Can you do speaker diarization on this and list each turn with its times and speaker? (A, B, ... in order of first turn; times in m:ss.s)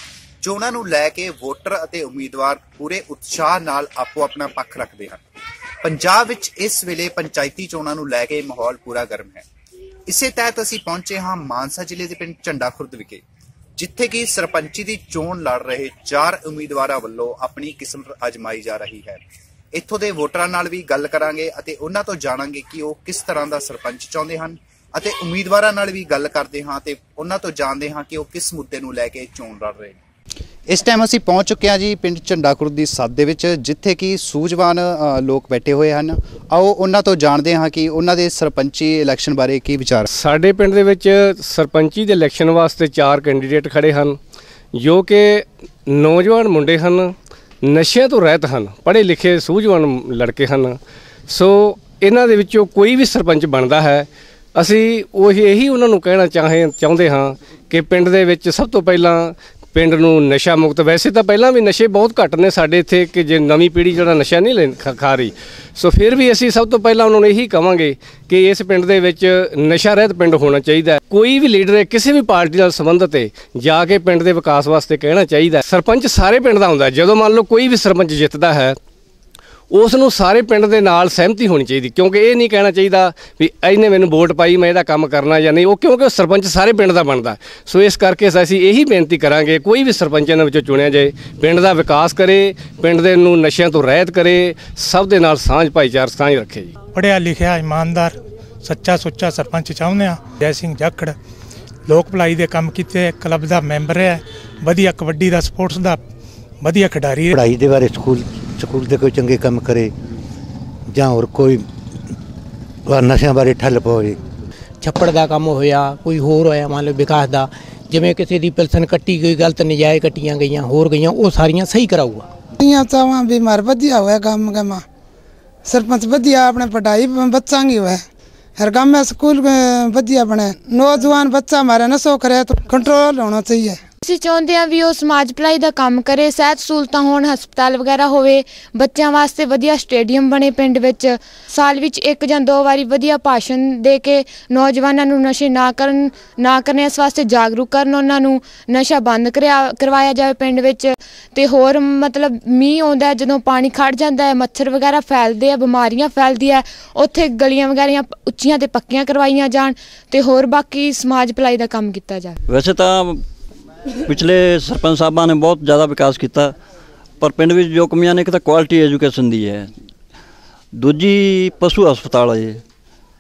0:00.4-0:05.2 A
0:05.8-0:09.4 A
0:10.1-0:13.2 A
0:13.8-0:19.2 A
0:19.7-0:30.0 A
0:30.7-0:40.1 A
0:40.1-0:44.2 B
0:44.7-0:50.8 B
0:51.3-1:18.8 B
1:19.7-1:36.7 B
1:36.9-1:41.1 C
1:41.9-1:46.0 C
1:46.6-1:47.4 C
1:47.3-1:48.2 D
1:48.7-1:49.8 D
1:51.0-1:51.5 D
1:52.9-1:54.0 D
1:54.8-2:02.2 E
2:02.6-2:04.8 F
2:05.6-2:08.0 F
2:08.6-2:13.8 F
2:14.0-2:42.3 G
2:42.5-2:43.2 H
2:44.1-2:46.5 H
2:47.2-2:49.7 H
2:50.7-2:52.6 H